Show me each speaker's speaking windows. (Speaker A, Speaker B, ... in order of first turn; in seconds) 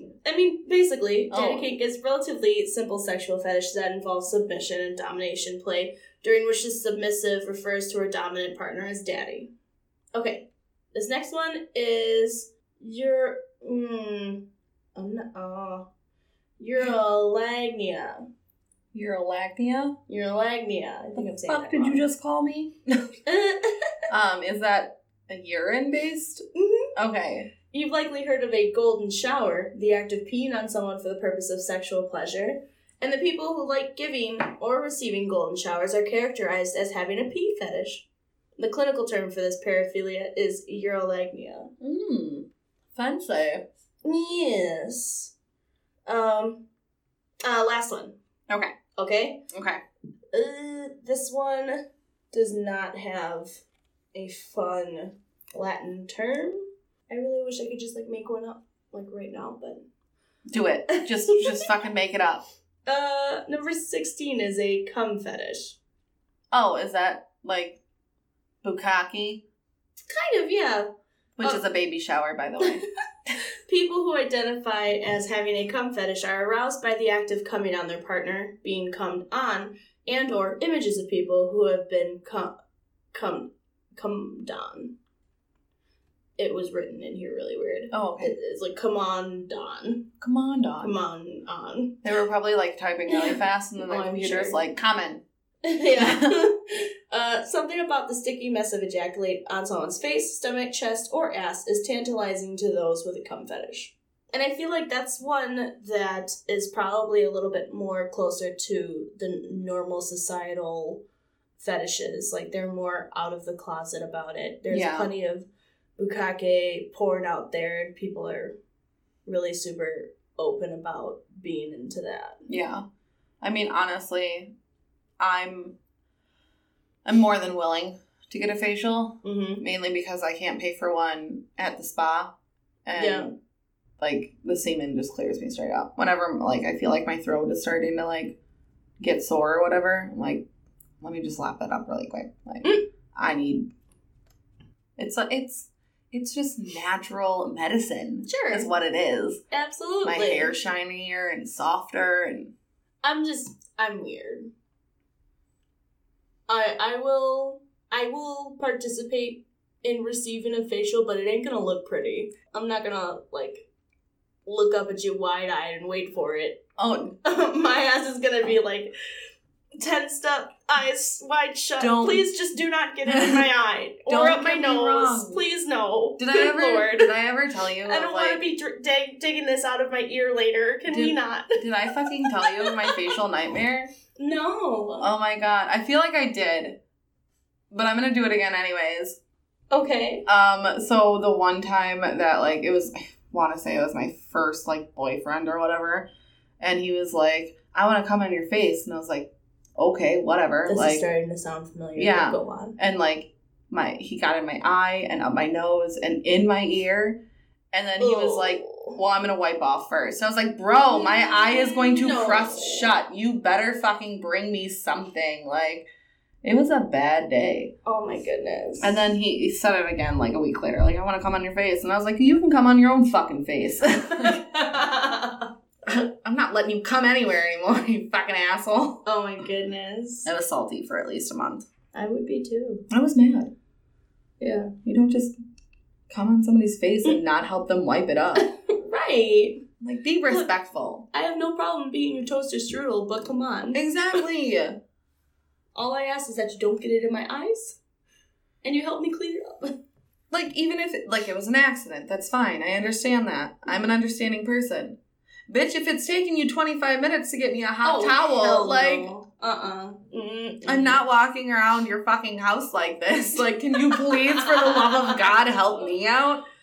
Speaker A: 0.2-9.5, 10.1-15.9, 16.6-18.3, 20.1-22.1, 23.3-23.8, 26.6-26.9, 27.7-38.1, 38.6-41.7, 44.0-45.3, 46.1-46.7, 47.4-48.1, 49.0-49.5, 50.3-53.6, 54.1-59.9, 60.9-61.7, 62.9-65.8, 70.1-70.9, 73.7-82.5, 83.1-84.9, 86.4-90.1, 90.8-92.0, 93.1-94.6, 95.6-111.0, 111.6-118.6, 119.3-122.5, 129.2-129.6, 133.0-133.3, 148.3-148.7, 149.5-150.6, 153.0-154.5, 156.5-163.7, 164.5-166.6, 167.2-168.9, 169.8-177.1, 177.8-181.6, 182.3-183.1, 184.2-185.1, 189.7-190.3, 200.7-202.8, 208.0-209.0, 210.8-213.0, 217.8-219.0, 224.2-225.5, 229.1-230.3, 231.9-232.8, 234.4-234.7, 238.3-239.6, 241.1-243.8, 245.8-247.8, 248.6-249.8, 257.8-261.0, 263.8-265.4
Speaker B: 1.3-1.7, 18.9-20.0, 21.2-23.0, 24.1-26.4, 26.9-27.5, 41.8-43.6, 48.5-48.8, 49.5-49.8, 60.5-62.4, 66.5-67.8, 68.6-69.4, 71.4-72.8, 87.9-88.3, 90.2-90.9, 92.0-95.2, 96.0-96.5, 114.7-115.1, 122.5-122.8, 123.4-124.5, 125.2-125.8, 127.0-132.3, 132.9-133.3, 134.0-138.4, 139.0-140.4, 141.0-143.7, 145.0-149.4, 150.0-152.5, 166.8-167.2, 171.8-172.2, 173.1-173.5, 174.1-175.4, 176.2-178.4, 180.9-183.9, 185.0-186.8, 187.7-189.2, 190.3-196.1, 196.6-201.0, 202.0-207.2, 207.7-215.9, 216.4-217.7, 218.8-224.4, 225.9-229.1, 230.2-231.7, 232.9-233.5, 234.8-235.3, 236.1-238.5, 239.8-241.1, 243.7-244.8, 250.3-255.0, 255.5-259.1, 260.7-266.4